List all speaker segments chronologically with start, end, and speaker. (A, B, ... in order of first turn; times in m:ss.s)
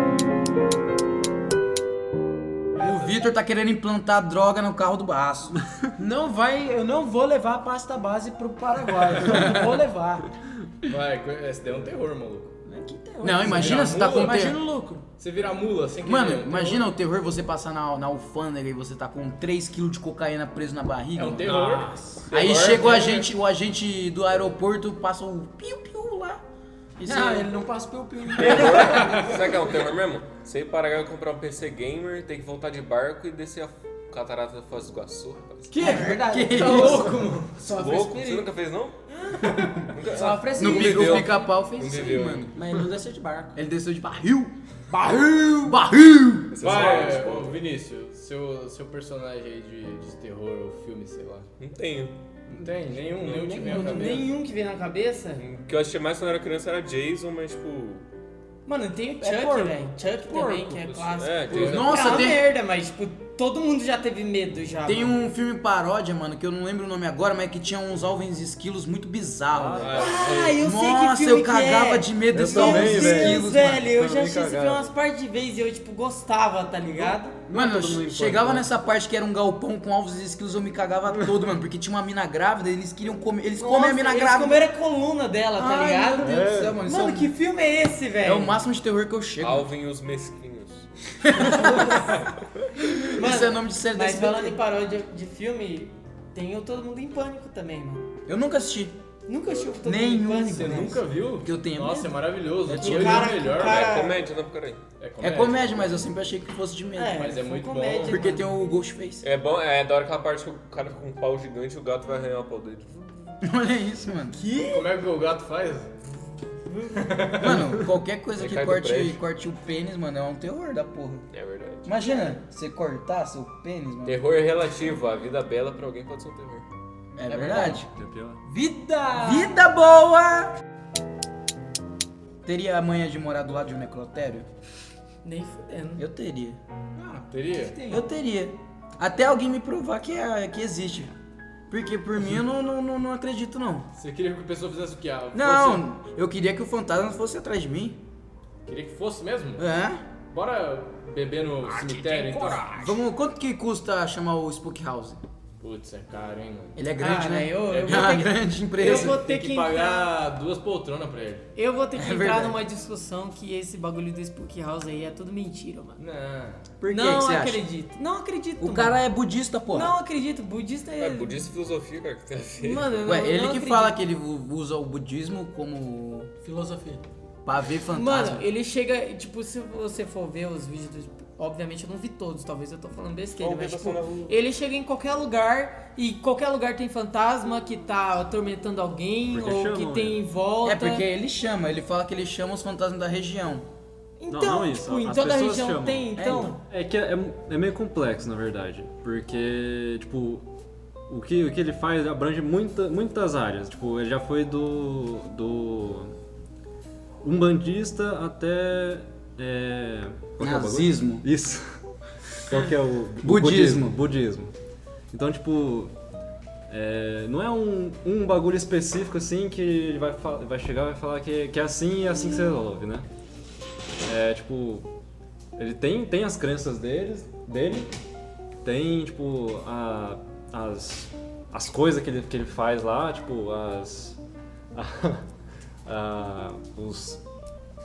0:02.8-0:05.6 A
0:06.0-0:10.3 B
0:09.2-0:09.7 A
0:10.8-0:12.6 C
0:12.6-0:15.0 B
0:13.2-0:14.6 A
0:13.4-0:14.5 C
0:15.2-0:16.8 C
0:16.0-0:21.6 A
0:21.2-0:22.2 C
0:21.5-0:21.9 D
0:22.2-0:23.2 E
0:22.3-0:26.4 A
0:27.0-0:27.5 A
0:27.0-0:29.2 B
0:28.3-0:35.9 E
0:28.4-0:29.4 A
0:35.7-0:37.7 B
0:35.8-0:37.2 A
0:36.5-0:36.9 C
0:36.6-0:38.4 F
0:37.6-0:39.0 E
0:39.8-0:42.6 E
0:40.0-0:41.4 B
0:40.6-0:44.5 A
0:42.6-0:43.6 B
0:44.9-0:45.8 B
0:45.6-0:46.9 A
0:46.5-0:47.6 E
0:46.6-0:51.5 C
0:51.6-0:52.1 E
0:52.5-0:54.3 C
0:53.2-0:54.2 A
0:53.6-0:55.4 F
0:55.4-0:58.0 E
0:58.6-1:05.2 F
0:59.2-1:00.4 A
1:01.0-1:02.3 E
1:01.5-1:01.9 C
1:01.5-1:02.4 A
1:04.8-1:13.9 A
1:09.5-1:10.2 D
1:09.8-1:10.5 E
1:09.8-1:10.5 C
1:10.0-1:17.4 F
1:12.3-1:14.9 D
1:17.0-1:18.7 D
1:17.5-1:24.7 A
1:21.1-1:21.4 D
1:23.6-1:28.6 F
1:25.6-1:27.3 A
1:26.2-1:26.8 D
1:28.2-1:29.7 A
1:29.4-1:30.9 E
1:31.2-1:32.1 A
1:31.4-1:32.1 F
1:33.0-1:34.6 A
1:33.1-1:38.1 F
1:38.3-1:39.0 A
1:39.3-1:41.0 F
1:39.8-1:43.4 A
1:40.5-1:44.2 C
1:42.7-1:44.2 F
1:43.4-1:44.8 E
1:45.0-1:46.0 C
1:45.2-1:47.4 A
1:46.9-1:48.5 F
1:47.1-1:48.2 C
1:48.0-1:49.2 A
1:49.2-1:53.1 E
1:53.4-1:54.4 A
1:54.4-1:54.8 F
1:54.6-1:55.9 C
1:56.7-1:57.1 F
1:56.9-1:57.7 C
1:57.4-2:01.2 A
1:58.4-1:59.2 E
2:01.3-2:01.9 E
2:01.8-2:04.3 A
2:04.0-2:06.6 E
2:07.2-2:07.8 A
2:07.3-2:08.4 D
2:08.5-2:09.6 B
2:09.1-2:10.5 A
2:12.4-2:14.5 A
2:15.2-2:16.0 F
2:16.0-2:16.6 A
2:17.0-2:17.8 C
2:17.6-2:18.0 B
2:17.9-2:21.1 A
2:21.7-2:23.9 A
2:23.9-2:25.8 C
2:25.3-2:28.0 A
2:28.6-2:29.6 C
2:29.6-2:30.0 A
2:30.3-2:32.8 C
2:32.1-2:32.6 B
2:32.7-2:35.2 A
2:35.6-2:36.8 C
2:36.8-2:39.2 A
2:37.0-2:40.1 F
2:37.7-2:38.2 C
2:38.8-2:41.5 C
2:41.6-2:46.0 F
2:41.9-2:42.6 A
2:46.0-2:46.6 C
2:46.8-2:47.6 A
2:46.9-2:49.0 F
2:48.6-2:49.9 A
2:49.7-2:51.5 F
2:51.0-2:53.0 E
2:52.6-2:54.0 F
2:53.0-2:56.3 A
2:56.4-2:57.0 B
2:57.4-2:58.4 A
2:57.9-3:11.1 F
3:03.4-3:04.4 E
3:09.3-3:10.2 D
3:10.6-3:13.6 A
3:14.2-3:16.6 F
3:14.3-3:20.5 D
3:16.2-3:16.5 A
3:21.1-3:26.1 D
3:27.2-3:31.6 D
3:30.4-3:31.2 A
3:32.4-3:34.5 D
3:33.2-3:34.0 A
3:35.1-3:35.9 D
3:36.7-3:43.0 D
3:44.0-3:44.9 D
3:45.6-3:47.9 D
3:48.6-3:54.2 D
3:54.7-3:55.2 D
3:55.8-3:57.2 D